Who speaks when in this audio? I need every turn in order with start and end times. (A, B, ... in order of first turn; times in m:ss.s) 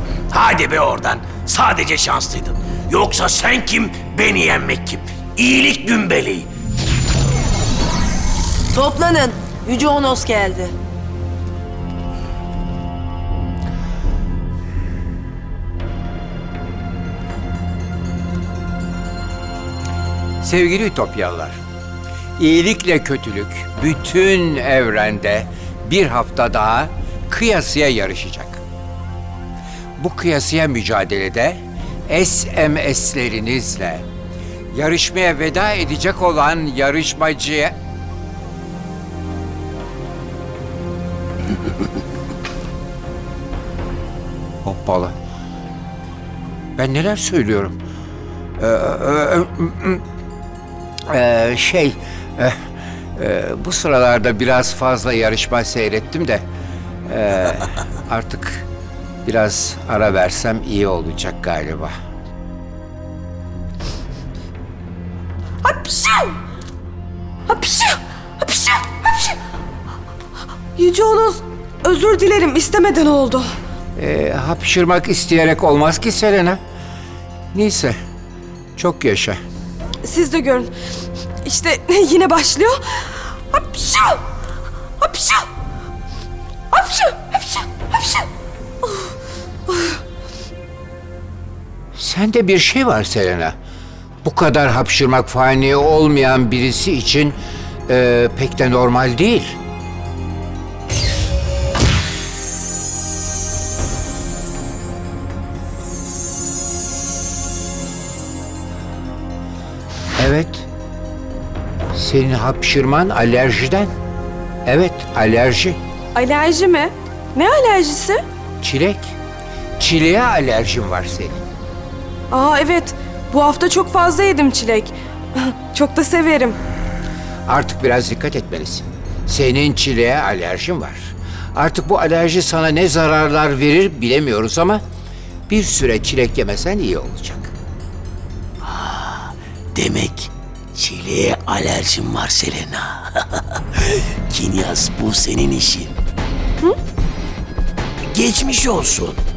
0:00.3-0:06.5 A
0:08.7-0:10.8 B
0:20.4-0:21.6 C
0:22.4-0:28.6 C
0:30.0-0:34.0 C
0:34.7-0:37.8 C
0:44.6-0:45.2 C
0:46.8-0:47.8 C
0:48.6-0:50.0 C
0:51.1-0:52.6 C
0:53.2-0:56.4 C
0:57.1-0:58.7 C
0:59.2-1:01.9 C
1:05.6-1:06.4 D
1:07.5-1:09.4 D
1:10.8-1:13.5 D
1:14.0-1:16.6 C
1:17.5-1:18.0 C
1:18.8-1:19.4 C
1:20.0-1:20.7 D
1:21.4-1:24.2 D
1:25.0-1:25.5 D
1:26.7-1:28.3 D
1:28.8-1:29.1 D
1:29.7-1:30.0 D
1:32.0-1:33.5 C
1:34.2-1:37.4 C
1:37.9-1:39.6 C
1:50.2-1:50.7 C
1:51.9-1:53.9 C
1:54.7-1:55.8 C
1:56.2-1:58.2 D
1:58.6-1:59.2 C
1:59.8-2:01.4 C
2:02.3-2:06.6 D
2:07.5-2:14.8 C
2:15.5-2:17.5 C
2:18.6-2:25.9 A
2:28.1-2:29.2 A